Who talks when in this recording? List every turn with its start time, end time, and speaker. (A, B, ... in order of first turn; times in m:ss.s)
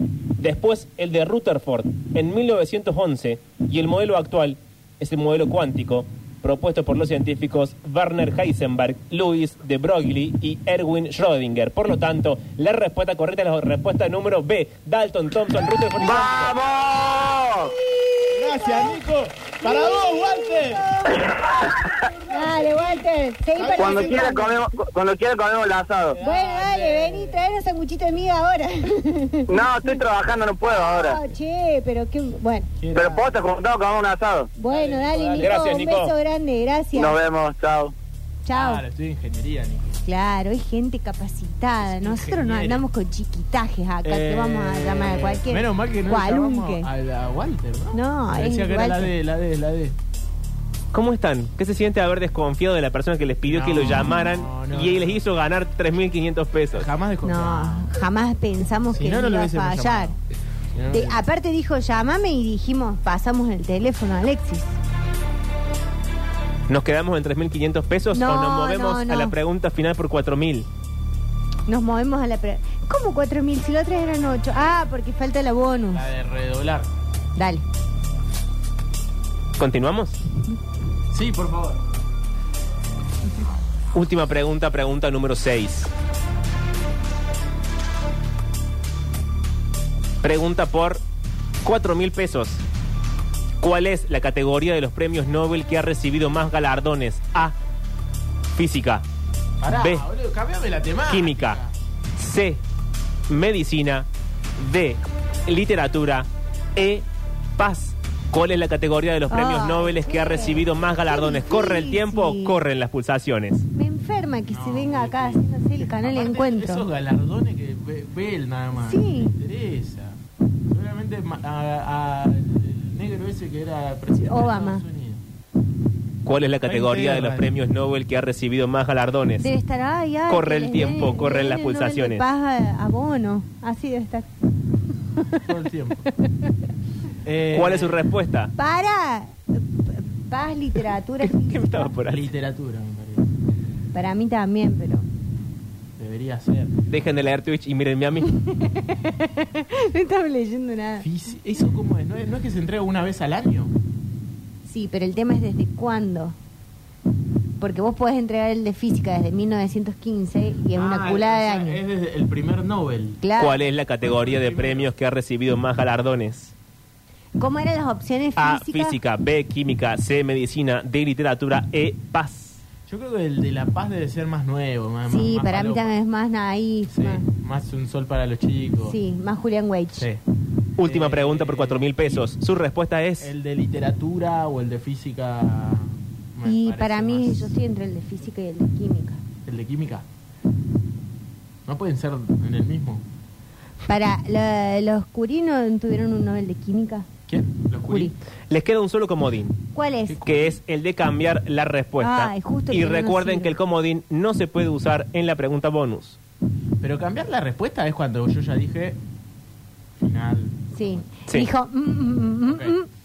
0:00.4-0:16.5 A
0:16.0-0:17.8 B
0:17.9-0:19.0 C
0:18.3-0:24.5 D
0:19.6-0:21.4 C
0:22.3-0:24.6 C
0:23.8-0:26.2 B
0:26.1-0:27.4 D
0:26.2-0:30.0 C
0:29.5-0:31.2 B
0:30.6-0:32.7 C
0:32.8-0:33.4 D
0:32.9-0:34.5 B
0:34.6-0:37.2 C
0:34.7-0:35.6 D
0:35.4-0:36.1 A
0:36.9-0:37.9 B
0:38.4-0:38.8 C
0:38.5-0:40.0 D
0:40.0-0:46.9 C
0:41.8-0:42.9 D
0:44.0-0:50.0 D
0:47.9-0:49.1 C
0:50.9-0:56.9 A
0:53.4-0:55.2 D
0:56.7-0:57.9 D
0:57.2-1:00.2 C
0:58.9-1:00.2 D
1:00.7-1:01.2 D
1:00.9-1:04.8 C
1:06.7-1:10.7 A
1:08.1-1:09.4 C
1:11.7-1:16.1 C
1:15.9-1:16.9 D
1:17.4-1:17.6 C
1:19.6-1:20.2 A
1:21.1-1:21.8 D
1:23.9-1:25.9 A
1:30.2-1:31.0 A
1:31.6-1:32.6 A
1:33.6-1:37.6 A
1:38.6-1:39.0 A
1:39.6-1:41.8 D
1:39.7-1:40.0 A
1:41.1-1:41.6 A
1:42.2-1:42.6 A
1:43.3-1:47.0 A
1:47.6-1:53.7 A
1:49.3-1:52.6 C
1:53.8-1:56.9 C
1:54.5-2:05.2 D
1:58.8-1:59.4 C
2:04.1-2:04.8 C
2:06.2-2:09.5 A
2:06.6-2:07.5 D
2:09.4-2:14.3 C
2:10.3-2:12.2 A
2:15.4-2:16.1 D
2:17.2-2:18.1 D
2:17.5-2:18.5 A
2:18.6-2:21.9 C
2:21.2-2:22.3 A
2:22.1-2:23.3 D
2:23.9-2:25.1 C
2:26.0-2:26.8 D
2:26.9-2:28.4 A
2:28.3-2:31.1 C
2:31.0-2:33.8 D
2:34.6-2:36.4 C
2:37.6-2:41.8 C
2:40.7-2:43.2 D
2:43.2-2:43.6 C
2:43.4-2:46.5 A
2:44.0-2:44.9 D
2:47.4-2:49.0 C
2:48.4-2:52.6 A
2:52.9-2:56.0 D
2:55.1-2:57.2 C
2:56.9-2:59.0 D
2:58.8-3:00.1 C
3:00.0-3:00.2 D
3:00.8-3:03.3 A
3:00.8-3:02.4 D
3:03.2-3:07.5 D
3:06.4-3:09.2 C
3:09.4-3:10.1 D
3:11.7-3:13.0 D
3:13.9-3:17.1 C
3:17.3-3:18.2 D
3:17.8-3:18.2 C
3:18.5-3:19.6 A
3:19.7-3:20.3 C
3:20.1-3:20.6 D
3:20.2-3:26.2 A
3:22.0-3:23.6 C
3:26.8-3:29.0 D
3:30.0-3:31.0 D
3:30.7-3:32.9 C
3:32.5-3:32.8 D